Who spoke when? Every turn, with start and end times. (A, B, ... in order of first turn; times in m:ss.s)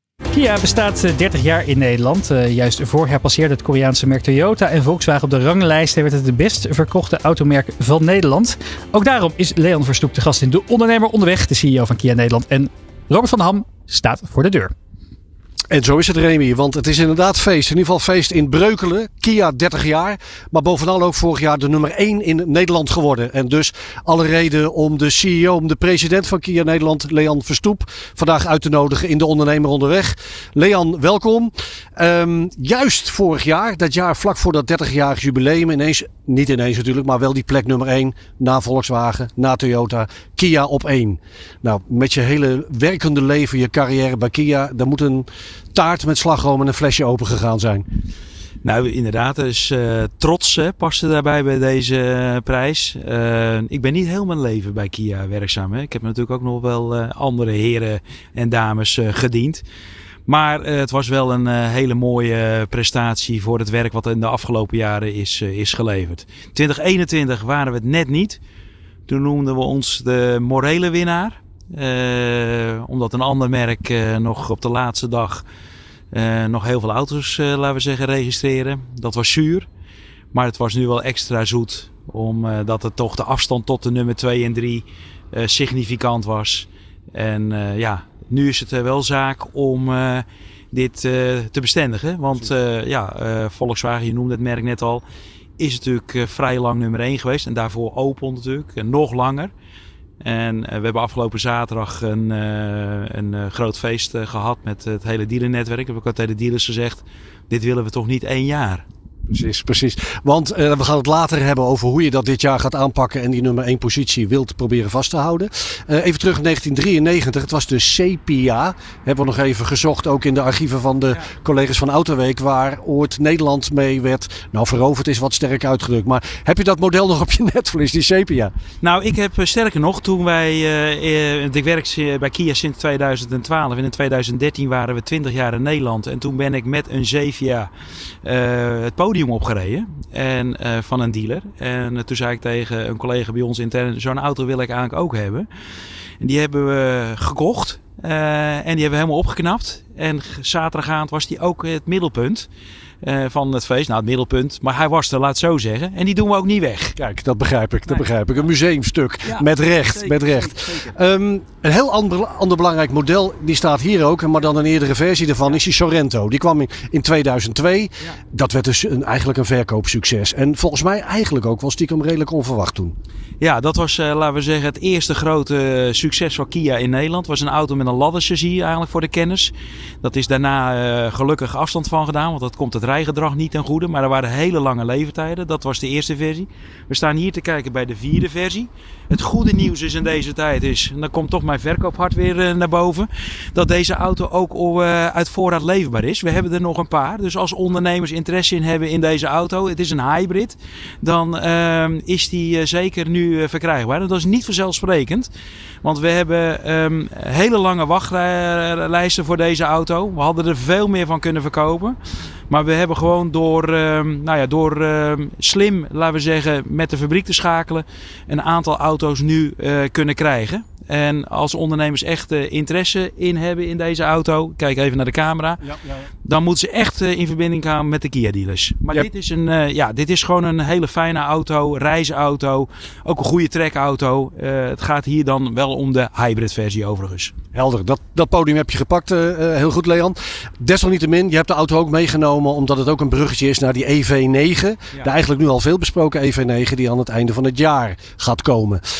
0:00.3-0:14.7 A
0:15.7-0:47.8 B
0:48.6-0:59.6 C
1:00.2-1:08.4 C
1:09.1-1:15.4 C
1:16.1-1:19.7 C
1:20.3-1:35.0 C
1:35.6-1:39.5 C
1:40.2-1:48.8 C
1:49.3-2:08.5 B
2:08.8-2:17.7 C
2:18.2-2:25.5 C
2:26.2-2:32.5 C
2:33.0-2:37.0 C
2:37.0-2:52.9 B
2:39.2-2:40.9 C
2:53.4-3:25.3 C
3:25.8-3:32.0 C
3:32.5-3:45.6 C
3:45.6-3:46.0 B
3:46.2-3:57.3 C
3:57.5-4:08.8 B